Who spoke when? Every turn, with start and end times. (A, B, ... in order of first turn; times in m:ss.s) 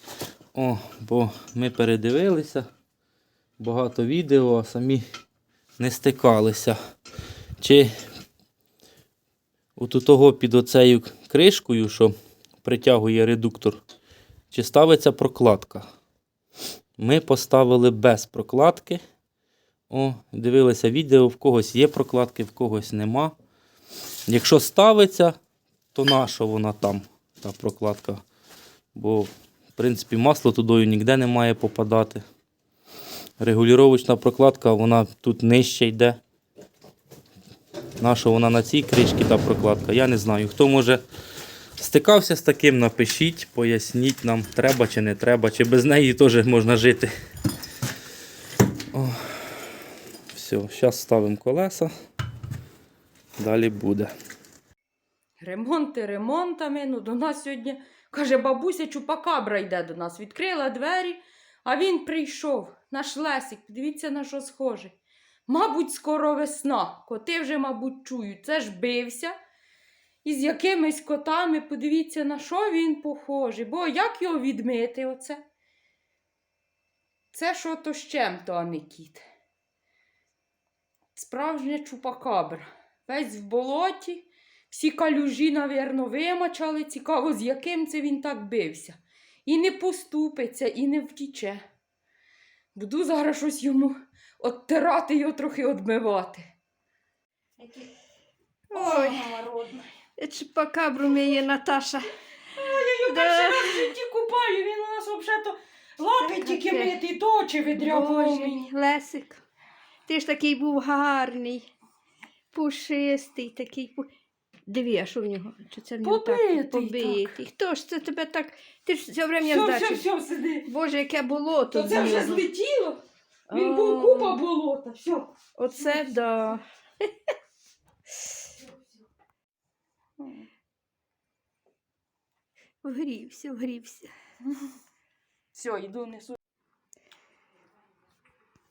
0:00.5-0:02.7 A
0:03.6-0:05.0 A
0:05.8-0:06.8 A
0:07.6-0:07.9 A
0:09.8-0:13.8 A
0:14.5-0:15.8 A
0:17.0-0:19.0 A
0:19.9-0:23.3 A
0:24.3-0:25.4 A
0:25.9-0:28.2 A
0:28.9-0:32.2 A
0:33.4-0:36.2 A
0:38.0-0:41.0 A
0:41.8-0:47.1 A
0:48.9-0:49.8 A
0:50.3-0:51.9 A
0:53.4-0:54.1 A
0:55.4-1:09.4 B
1:10.2-1:15.4 B
1:17.3-1:19.2 B
1:21.1-1:31.6 B
1:32.7-1:36.5 B
1:38.7-1:39.2 C
1:38.7-1:39.9 B
1:40.2-1:42.1 C
1:42.5-1:48.7 B
1:43.0-1:43.9 C
1:46.1-1:46.9 C
1:47.7-1:49.4 C
1:50.1-1:51.7 C
1:52.5-1:54.1 C
1:54.7-2:00.0 C
1:56.0-1:57.4 B
1:59.4-2:00.7 B
2:00.6-2:02.4 C
2:01.7-2:06.0 B
2:03.5-2:04.4 C
2:05.6-2:06.6 C
2:10.2-2:10.5 B
2:12.8-2:14.1 C
2:14.4-2:14.7 B
2:15.5-2:16.4 B